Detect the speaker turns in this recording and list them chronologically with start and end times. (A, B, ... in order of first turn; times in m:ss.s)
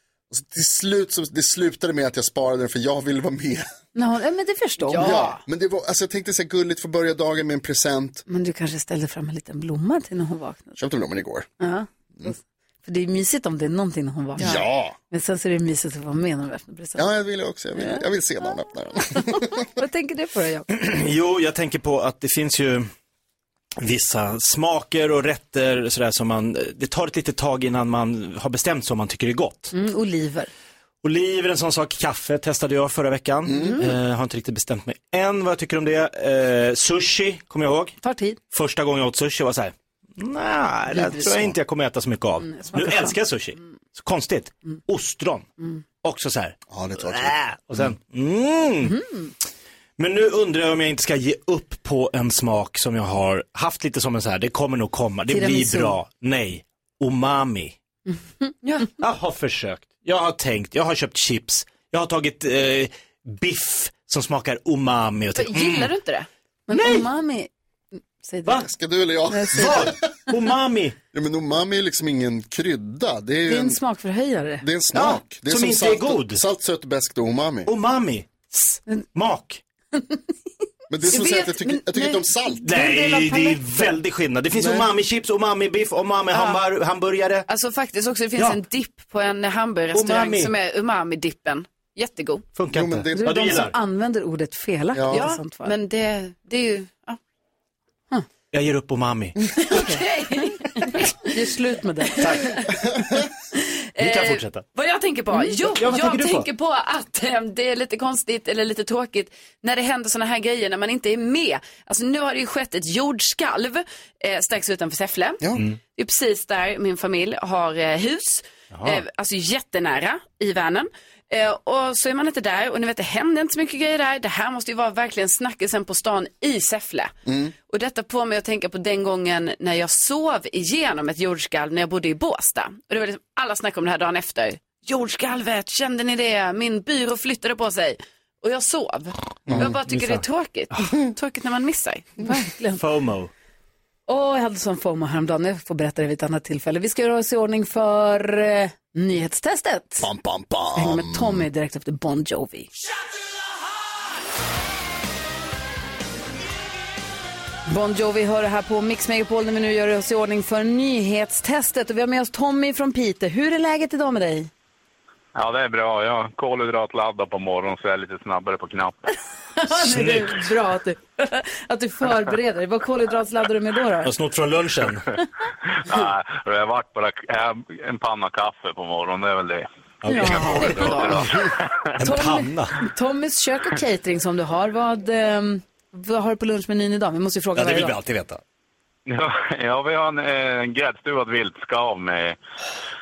0:00.3-0:03.7 A
0:04.0-0:05.2 B
0:04.9-0:05.4 C
0:05.0-0:08.2 A
0:08.3-0:10.8 B
0:10.8-0:11.5 A
0:11.6-0:14.6 B
0:14.4-0:15.0 A
0:15.1-0:17.0 B
0:17.0-0:19.6 A
0:17.8-0:18.0 B
0:19.2-0:20.7 B
0:20.7-0:22.9 D
0:23.8-0:29.7 D
0:29.7-0:30.5 B
0:31.0-0:38.0 D
0:33.5-0:33.8 A
0:38.0-0:38.4 B
0:38.5-0:45.5 D
0:40.9-0:41.5 B
0:42.5-0:43.2 B
0:46.0-0:49.0 D
0:46.7-0:47.4 A
0:50.0-0:57.8 D
0:55.3-0:56.0 B
0:59.0-1:05.9 D
1:05.4-1:06.3 C
1:06.7-1:07.5 B
1:06.7-1:07.0 D
1:08.2-1:08.6 B
1:08.6-1:10.0 A
1:09.3-1:09.9 B
1:09.5-1:11.0 D
1:11.1-1:13.8 A
1:13.5-1:14.6 B
1:14.6-1:17.7 A
1:14.9-1:16.4 D
1:17.7-1:19.6 D
1:20.9-1:22.7 A
1:21.1-1:22.1 C
1:22.6-1:27.5 D
1:22.7-1:23.9 B
1:26.3-1:26.6 C
1:27.5-1:32.5 C
1:29.9-1:30.5 D
1:32.6-1:33.8 D
1:32.7-1:33.7 A
1:33.2-1:35.7 B
1:34.9-1:35.2 A
1:35.1-1:37.2 C
1:38.5-1:39.5 D
1:39.7-1:41.2 C
1:39.7-1:40.1 B
1:40.8-1:42.3 B
1:42.2-1:42.6 D
1:44.0-1:44.7 D
1:44.0-1:55.4 C
1:45.7-1:46.5 D
1:56.0-2:07.1 C
1:58.7-1:59.0 D
2:07.3-2:07.5 A
2:07.7-2:22.2 C
2:19.5-2:20.2 D
2:22.2-2:22.8 B
2:22.8-2:23.3 D
2:24.1-2:30.1 B
2:30.0-2:31.5 A
2:30.8-2:32.7 B
2:37.7-2:44.5 B
2:45.4-2:49.1 E
2:49.6-2:54.1 B
2:49.7-2:50.4 D
2:54.0-2:55.1 D
2:55.9-2:59.7 E
3:00.0-3:01.4 D
3:00.1-3:01.1 B
3:00.2-3:01.3 E
3:00.2-3:01.2 C
3:02.0-3:02.8 D
3:02.0-3:07.9 B
3:07.6-3:08.4 D
3:09.1-3:12.4 E